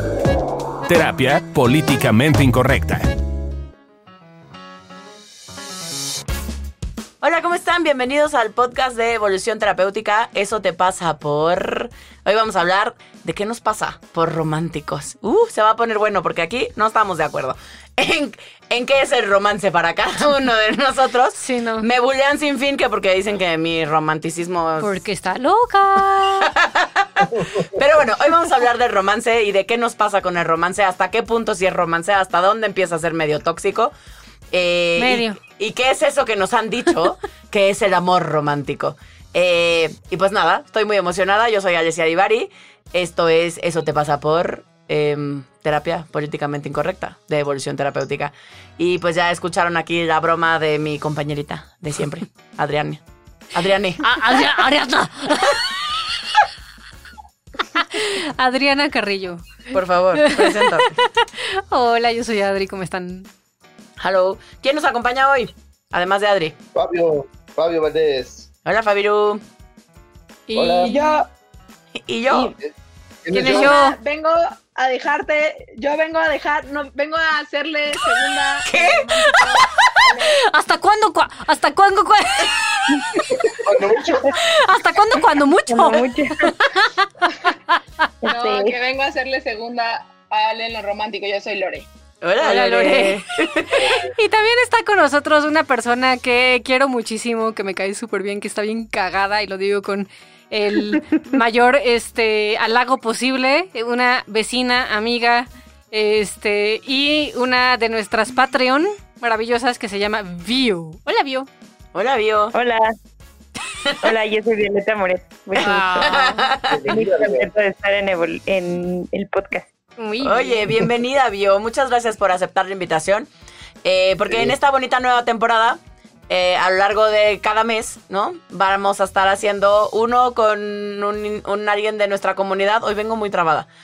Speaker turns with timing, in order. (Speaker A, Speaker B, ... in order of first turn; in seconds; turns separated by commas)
Speaker A: 0.8-3.1, Speaker B: 7.2-25.0, Speaker C: 21.4-21.9, Speaker C: 24.8-26.5, Speaker B: 26.4-33.9, Speaker B: 34.5-53.0, Speaker C: 35.0-35.4, Speaker B: 53.5-54.1, Speaker C: 54.0-55.6, Speaker C: 57.7-59.6, Speaker B: 59.7-61.0, Speaker C: 60.1-63.3, Speaker B: 64.0-66.5, Speaker D: 66.7-68.5, Speaker B: 68.6-69.4, Speaker C: 70.5-71.2, Speaker D: 70.5-70.9, Speaker E: 70.8-71.3, Speaker B: 72.0-72.5, Speaker D: 72.4-72.7, Speaker D: 73.2-73.7, Speaker C: 73.3-74.0, Speaker E: 73.4-80.4, Speaker B: 78.7-80.1, Speaker C: 80.4-82.5, Speaker D: 83.5-84.4, Speaker C: 84.4-87.1, Speaker F: 85.7-86.5, Speaker F: 88.2-88.8, Speaker E: 88.3-91.9, Speaker B: 92.2-93.8, Speaker C: 92.4-111.5, Speaker D: 93.8-94.1, Speaker B: 111.9-112.5, Speaker F: 112.5-112.9, Speaker F: 114.0-116.1, Speaker B: 115.5-116.8, Speaker C: 115.6-116.4, Speaker D: 116.7-117.5, Speaker F: 116.9-119.7, Speaker C: 120.0-120.7, Speaker B: 120.2-123.3, Speaker B: 123.8-133.7, Speaker D: 124.2-124.5